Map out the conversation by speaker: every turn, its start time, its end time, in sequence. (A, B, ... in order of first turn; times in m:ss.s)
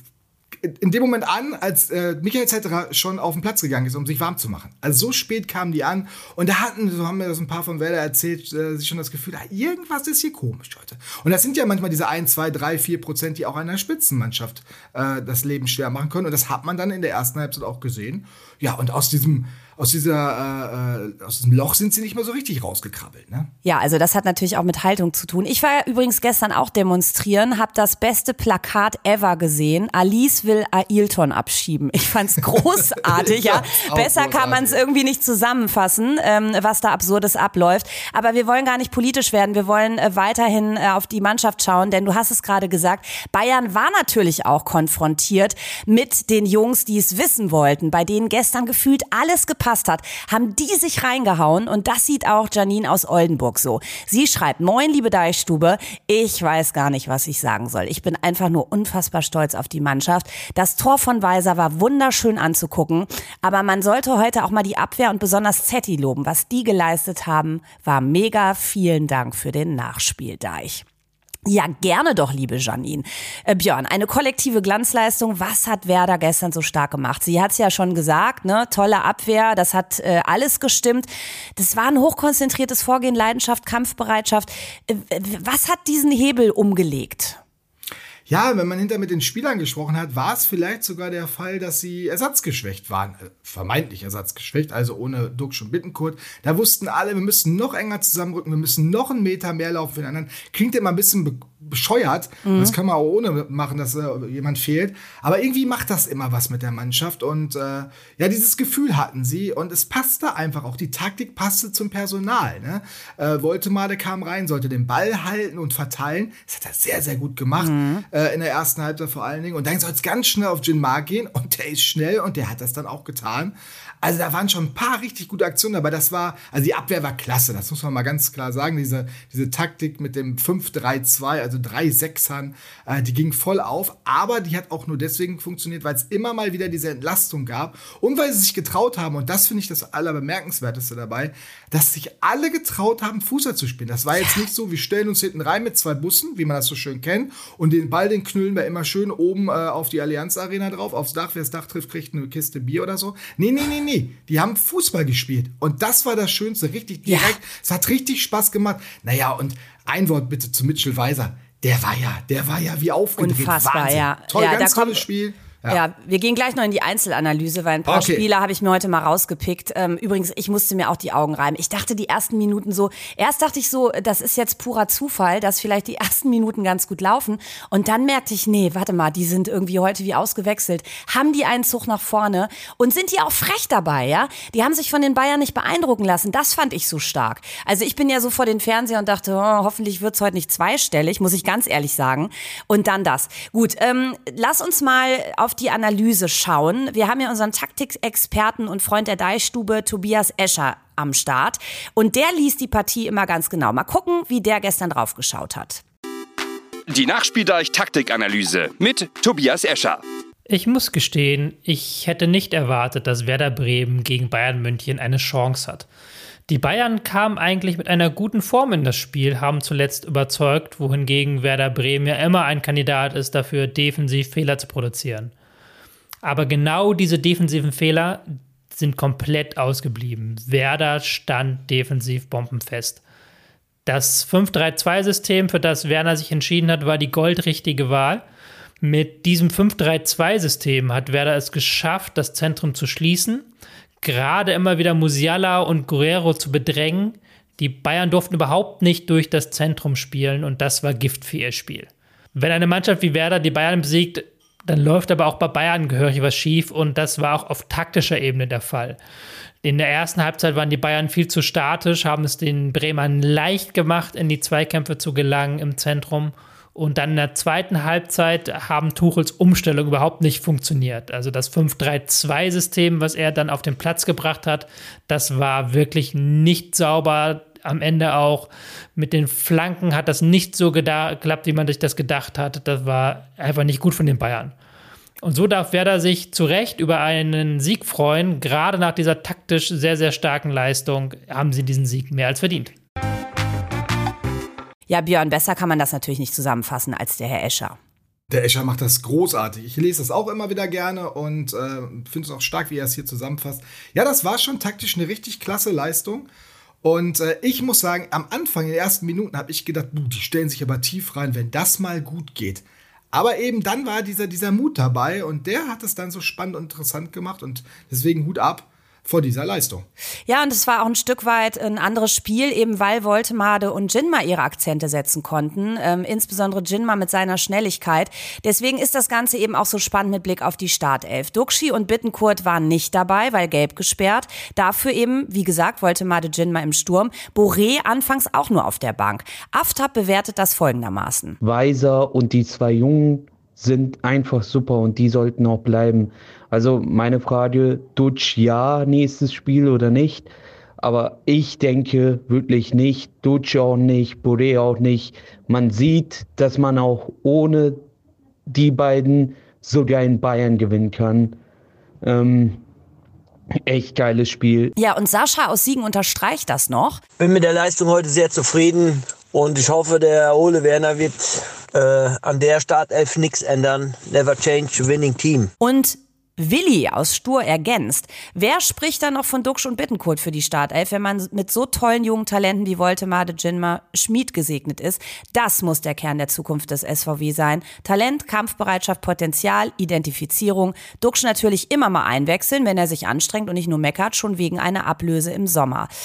0:00.6-0:23.5 A
0:23.6-1:10.8 B
0:32.8-0:34.8 A
1:11.5-1:27.4 B
1:28.3-2:45.8 A
1:42.4-1:42.8 B
1:57.6-1:58.0 B
2:37.1-2:37.4 B
2:43.2-2:45.0 B
2:45.7-3:25.8 B
2:47.8-2:48.3 A
3:26.9-3:30.0 C
3:30.5-3:35.9 D
3:36.5-3:45.3 D
3:46.2-3:53.0 D
3:53.9-3:58.2 D
3:58.8-4:03.5 D
4:04.0-4:19.0 D
4:19.6-4:44.5 D
4:45.2-4:52.7 D
4:54.9-4:57.8 B
4:58.3-5:06.3 A
5:06.8-5:19.9 A
5:20.3-5:41.4 B
5:41.4-5:50.3 E
5:50.8-5:57.8 E
5:58.5-6:01.4 E
6:02.0-6:02.6 E
6:03.7-6:04.7 E
6:04.8-6:07.0 B
6:07.2-6:15.5 F
6:15.6-6:35.9 B